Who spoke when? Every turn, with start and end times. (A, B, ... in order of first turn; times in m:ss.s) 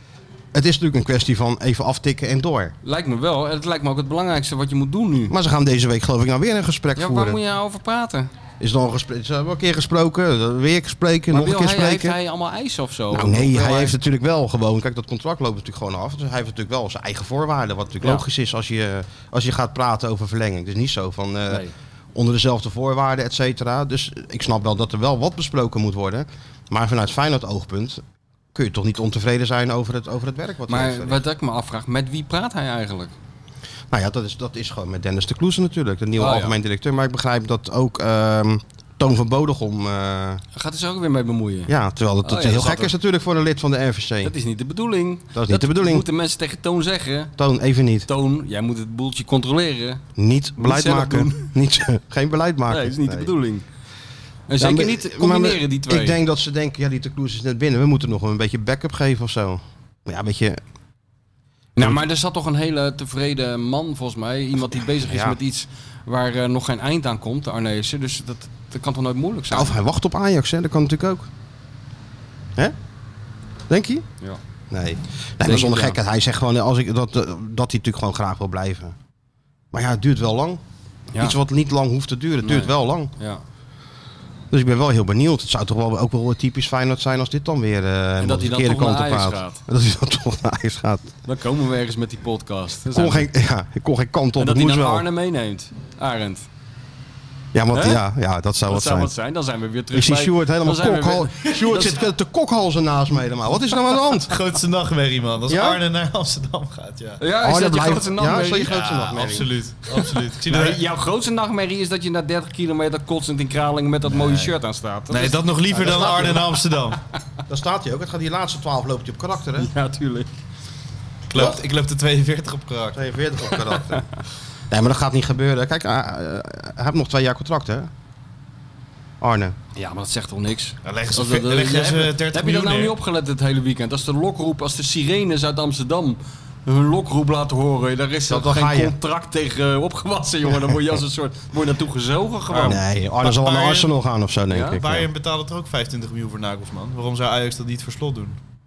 0:00.5-0:02.7 A
0:02.8-0:05.3 B
0:05.3-0:07.4 A
0:07.0-0:08.3 B
0:08.6-0:12.2 A
0:11.3-0:14.0 B
0:13.1-0:28.0 A
0:28.5-0:31.2 A
0:30.7-0:33.1 B
0:33.9-0:40.4 A
0:36.2-0:36.6 B
0:40.6-0:41.7 B
0:41.7-0:44.3 A
0:42.2-0:42.9 B
0:44.2-0:47.3 B
0:45.3-0:46.1 A
0:47.4-0:48.1 A
0:48.1-0:50.0 B
0:50.2-0:53.3 A
0:50.6-0:51.5 B
0:52.7-0:53.6 B
0:54.5-0:56.2 B
0:54.6-1:00.6 A
1:01.8-1:02.0 A
1:01.8-1:09.8 B
1:05.0-1:05.4 A
1:09.5-1:11.3 A
1:13.7-1:14.0 A
1:14.7-1:19.0 A
1:15.4-1:16.0 B
1:19.7-1:20.6 A
1:21.2-1:23.1 A
1:22.4-1:23.4 B
1:24.5-1:31.1 A
1:28.2-1:29.6 B
1:31.2-1:33.3 B
1:32.9-1:35.1 A
1:34.4-1:36.4 B
1:37.5-1:39.1 A
1:37.7-1:38.0 B
1:38.7-1:42.0 B
1:39.9-1:44.4 A
1:44.3-1:47.2 C
1:45.5-1:45.8 A
1:47.2-1:48.7 B
1:47.4-1:49.5 A
1:48.7-1:50.8 C
1:49.9-1:56.4 B
1:54.1-1:54.5 C
1:55.1-1:57.0 C
1:55.7-1:56.6 A
1:57.5-1:59.7 A
1:59.6-2:00.3 B
2:01.3-2:03.0 C
2:01.4-2:01.6 A
2:02.9-2:04.1 A
2:03.7-2:04.0 B
2:04.7-2:07.9 A
2:09.2-2:09.6 A
2:09.8-2:22.8 B
2:10.8-2:13.0 C
2:18.3-2:19.0 A
2:22.5-2:23.9 C
2:22.7-2:25.1 A
2:24.5-2:24.8 B
2:24.8-2:28.4 C